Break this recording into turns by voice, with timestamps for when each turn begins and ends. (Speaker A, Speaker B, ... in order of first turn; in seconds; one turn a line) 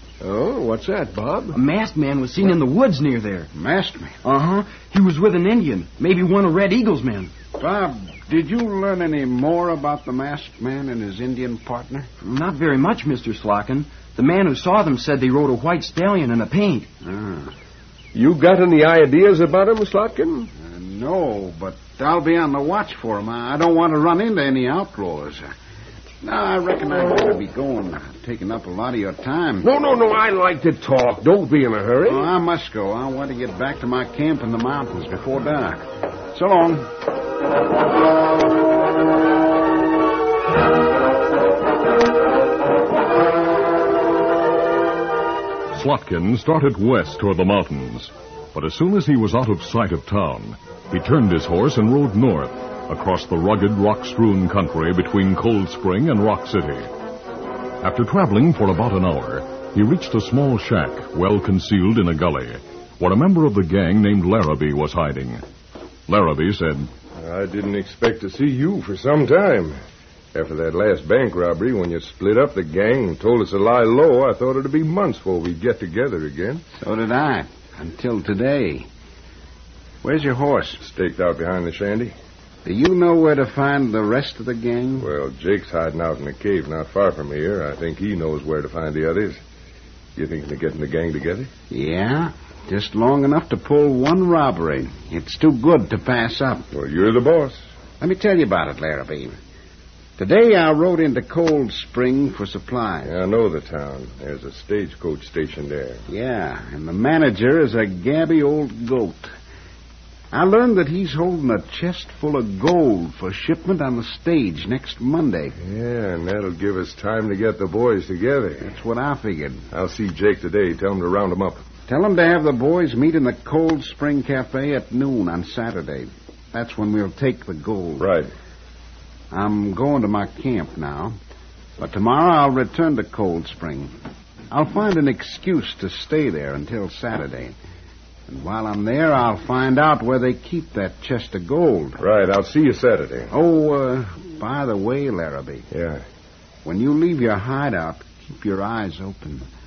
Speaker A: 0.2-1.6
Speaker B: 1.5-3.5
Speaker C: 3.5-4.2
Speaker B: 4.2-7.3
Speaker C: 7.6-12.1
Speaker B: 12.2-16.9
Speaker C: 17.0-17.5
Speaker A: 18.1-20.5
Speaker C: 20.6-25.5
Speaker C: 26.2-29.7
Speaker A: 29.6-32.3
Speaker C: 32.0-36.9
Speaker D: 45.7-56.9
Speaker D: 57.8-65.4
Speaker D: 66.1-66.9
Speaker E: 67.2-69.8
Speaker E: 70.3-76.6
Speaker C: 76.8-78.9
Speaker C: 80.0-80.8
Speaker E: 80.8-82.1
Speaker C: 82.7-85.1
Speaker E: 85.0-89.4
Speaker E: 90.2-91.5
Speaker C: 91.7-96.7
Speaker E: 96.7-97.6
Speaker C: 98.0-99.3
Speaker C: 100.2-103.2
Speaker E: 103.0-106.0
Speaker C: 106.1-109.3
Speaker C: 110.3-115.5
Speaker E: 115.6-118.7
Speaker C: 118.6-119.7
Speaker E: 119.7-121.6
Speaker C: 121.9-128.1
Speaker E: 128.0-128.3
Speaker C: 129.3-131.2
Speaker C: 131.8-133.9
Speaker C: 134.5-137.6
Speaker C: 138.3-142.0
Speaker E: 142.0-143.3
Speaker C: 143.3-145.7
Speaker E: 145.7-146.0
Speaker C: 146.7-149.4